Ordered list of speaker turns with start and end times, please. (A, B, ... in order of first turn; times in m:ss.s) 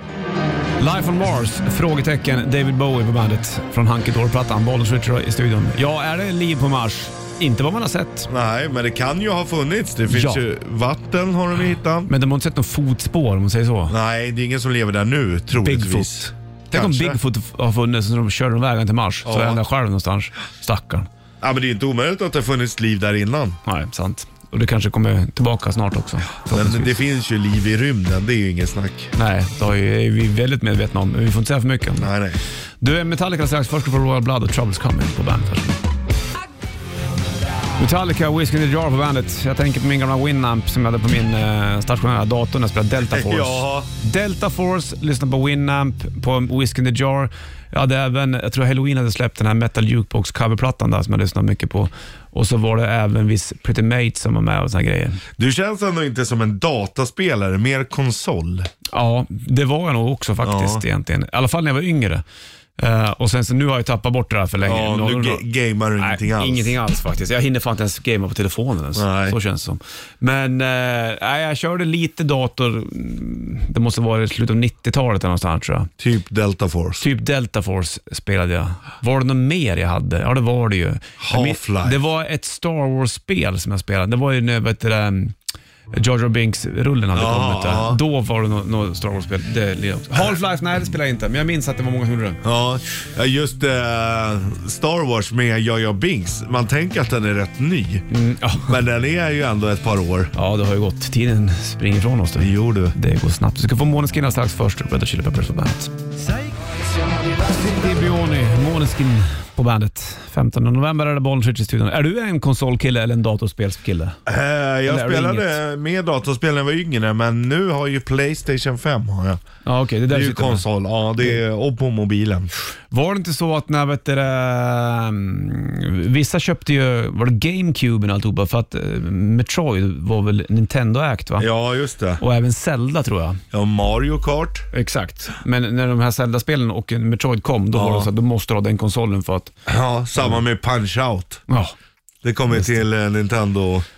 0:00.8-0:08.3 A
0:08.3-0:12.1 B
0:10.1-0:10.4 A
0:12.1-0:14.0 A
0:13.9-0:17.2 B
0:15.6-0:21.1 A
0:19.2-0:19.6 B
0:21.4-0:23.6 B
0:23.6-0:27.0 A
0:26.5-0:29.1 B
0:29.2-0:32.1 A
0:32.0-0:32.4 B
0:32.8-0:35.7 A
0:37.8-0:55.2 A
0:43.0-0:43.9 B
0:55.4-0:58.7 B
0:58.9-1:02.2 A
1:00.4-1:00.8 B
1:02.8-1:05.4 A
1:04.6-1:06.8 B
1:06.0-1:15.9 A
1:08.9-1:09.4 B
1:16.0-1:17.0 B
1:17.0-1:25.4 A
1:21.2-1:22.0 B
1:25.9-1:32.4 A
1:27.1-1:28.0 B
1:32.4-1:38.0 B
1:38.1-1:38.8 A
1:38.7-1:40.3 B
1:40.3-1:45.9 A
1:42.4-1:43.0 B
1:47.4-1:54.2 A
1:54.2-1:59.4 B
1:54.8-1:55.6 A
1:59.6-2:00.6 A
2:00.1-2:02.5 B
2:02.9-2:11.5 A
2:11.4-2:12.2 B
2:12.2-2:13.4 A
2:13.5-2:14.7 B
2:14.7-2:19.5 A
2:17.7-2:18.1 B
2:19.6-2:21.4 B
2:22.2-2:23.8 B